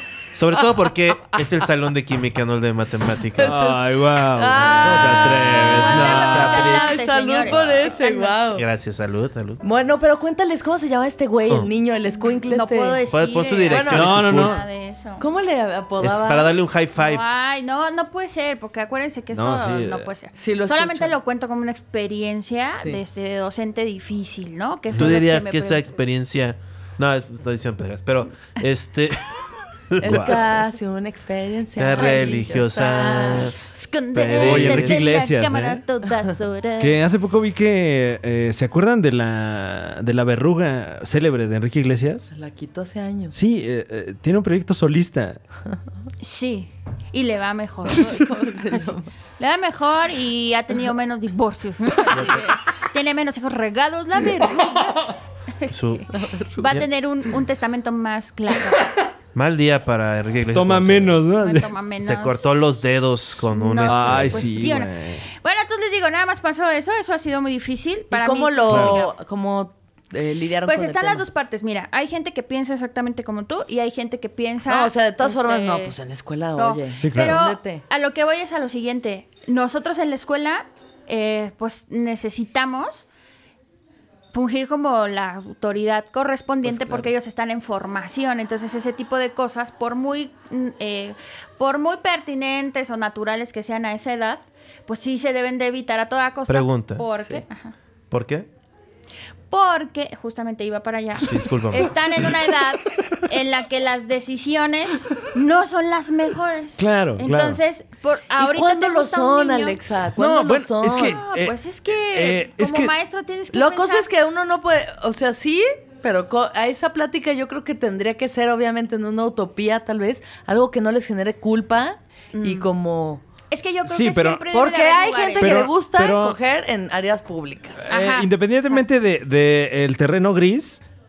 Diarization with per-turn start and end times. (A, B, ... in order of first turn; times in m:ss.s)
0:00.3-0:03.7 A
0:03.3-0:08.6 B
0:03.4-0:06.8 C
0:04.8-0:05.1 A
0:05.4-0:08.5 D
0:08.5-0:09.6 A
0:09.6-0:13.0 B
0:12.5-0:15.2 D
0:13.1-0:14.6 A
0:13.6-0:14.2 B
0:13.9-0:14.6 C
0:15.2-0:16.5 B
0:16.0-0:17.2 A
0:17.0-0:25.8 D
0:19.3-0:20.1 C
0:20.4-0:21.2 B
0:22.8-0:23.0 B
0:24.9-0:30.5 A
0:30.0-0:33.5 B
0:30.0-0:30.4 C
0:31.8-0:33.6 A
0:31.9-0:37.0 D
0:34.1-0:35.0 A
0:34.3-0:35.8 C
0:36.8-0:42.3 C
0:42.3-0:43.4 B
0:43.3-0:45.4 C
0:46.2-0:58.9 D
0:47.9-0:49.1 B
0:52.1-0:52.5 A
0:55.7-0:56.0 A
0:56.1-0:56.8 B
0:59.3-1:01.2 A
1:00.5-1:01.7 C
1:01.4-1:02.7 D
1:02.0-1:04.5 A
1:03.5-1:09.1 D
1:03.8-1:05.2 C
1:08.1-1:11.2 B
1:08.7-1:09.0 C
1:10.6-1:16.0 D
1:14.6-1:17.8 B
1:16.6-1:23.1 D
1:17.0-1:17.4 C
1:24.3-1:37.7 D
1:26.6-1:27.1 B
1:36.5-1:37.0 A
1:38.1-1:38.4 A
1:39.5-1:49.8 D
1:41.2-1:42.0 A
1:46.8-1:47.6 C
1:48.4-1:51.2 B
1:50.2-1:52.9 C
1:51.0-1:54.1 D
1:53.5-2:03.2 B
2:02.3-2:02.7 D
2:03.5-2:05.7 D
2:03.8-2:04.4 C
2:04.5-2:07.8 B
2:05.4-2:06.4 C
2:07.8-2:10.8 C
2:07.9-2:08.8 D